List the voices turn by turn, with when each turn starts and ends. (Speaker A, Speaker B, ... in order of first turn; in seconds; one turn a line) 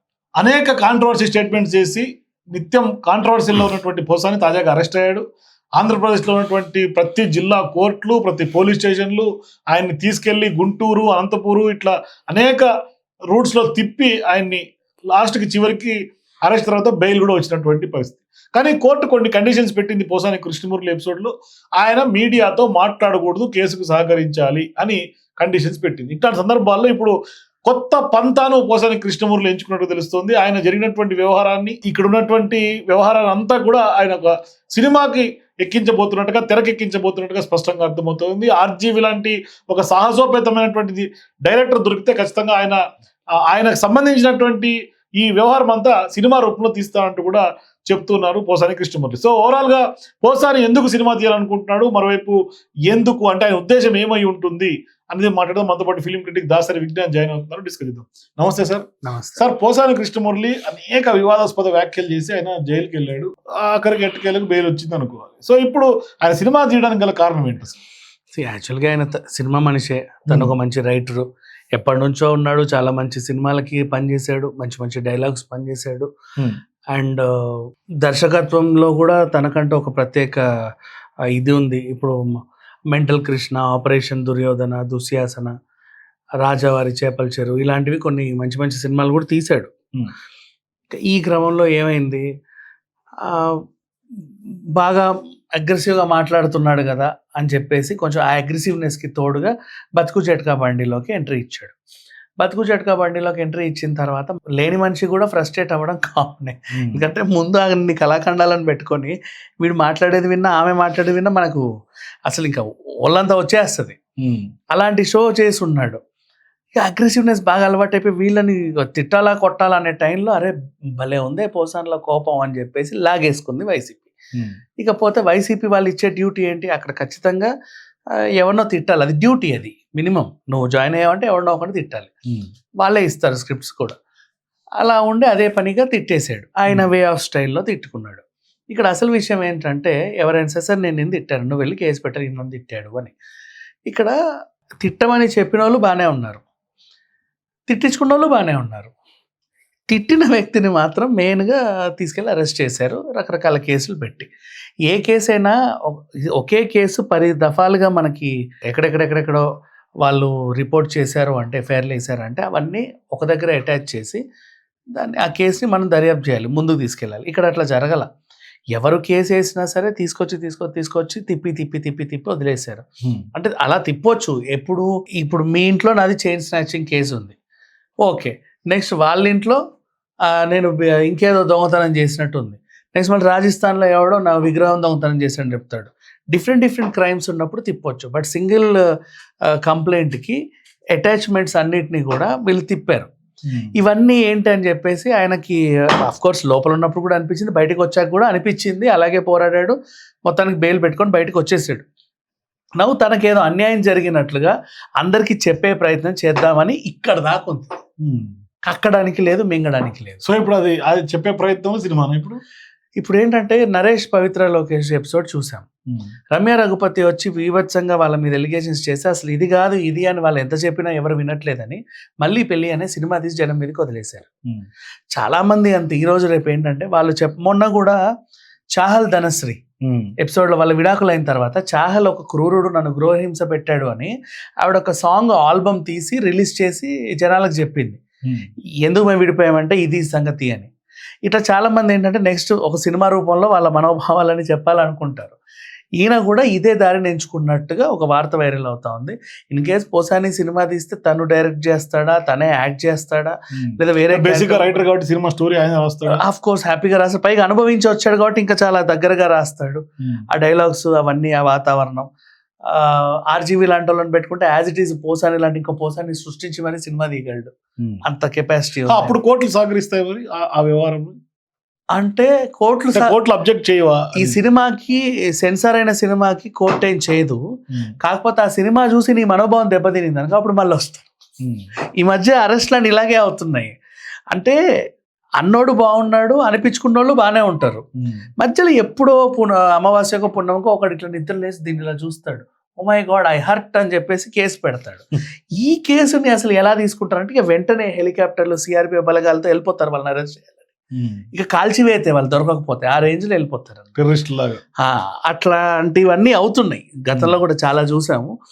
Speaker A: 0.4-5.2
Speaker A: 5.8-12.7
Speaker A: 13.3-42.8
Speaker A: 43.5-58.9
Speaker B: 59.0-59.4
Speaker A: 59.4-67.8
Speaker B: 68.3-76.1
Speaker B: 76.9-80.5
Speaker B: 81.3-82.2
Speaker B: 82.9-85.5
Speaker B: 86.4-89.7
Speaker B: 90.9-92.3
Speaker B: 93.2-93.6
Speaker B: 94.2-101.7
Speaker B: 102.4-111.6
Speaker A: 106.7-107.0
Speaker B: 112.3-114.0
Speaker A: 114.2-114.5
Speaker B: 114.7-116.0
Speaker B: 116.8-124.1
Speaker A: 124.3-124.6
Speaker B: 124.8-127.5
Speaker B: 128.4-132.1
Speaker B: 132.8-134.0
Speaker B: 134.8-143.2
Speaker B: 143.9-144.1
Speaker B: 144.8-146.4
Speaker B: 147.7-148.9
Speaker B: 149.9-154.3
Speaker B: 154.9-159.4
Speaker B: 160.0-164.2
Speaker B: 164.9-168.1
Speaker B: 168.7-177.3
Speaker B: 178.0-179.6
Speaker B: 180.3-188.8
Speaker B: 189.5-190.4
Speaker B: 190.9-193.1
Speaker A: 193.4-193.7
Speaker B: 193.8-199.8
Speaker B: 200.3-201.8
Speaker B: 202.8-207.8
Speaker A: 208.0-208.3
Speaker B: 208.7-210.2
Speaker A: 210.2-212.4
Speaker B: 213.0-215.7
Speaker B: 216.3-224.3
Speaker B: 225.1-228.0
Speaker B: 228.8-229.6
Speaker A: 229.8-230.1
Speaker B: 230.2-238.0
Speaker B: 238.8-240.7
Speaker B: 241.2-245.4
Speaker B: 246.0-254.8
Speaker A: 253.5-256.2
Speaker B: 256.1-262.1
Speaker B: 262.6-267.5
Speaker B: 268.0-269.2
Speaker A: 268.9-271.2
Speaker B: 272.0-273.1
Speaker A: 272.9-274.4
Speaker B: 274.2-277.4
Speaker B: 278.0-281.1
Speaker A: 281.4-281.7
Speaker B: 282.0-283.7
Speaker B: 285.4-287.9
Speaker B: 288.4-300.6
Speaker A: 300.9-301.2
Speaker B: 301.3-303.9
Speaker A: 304.0-304.6
Speaker B: 304.8-308.3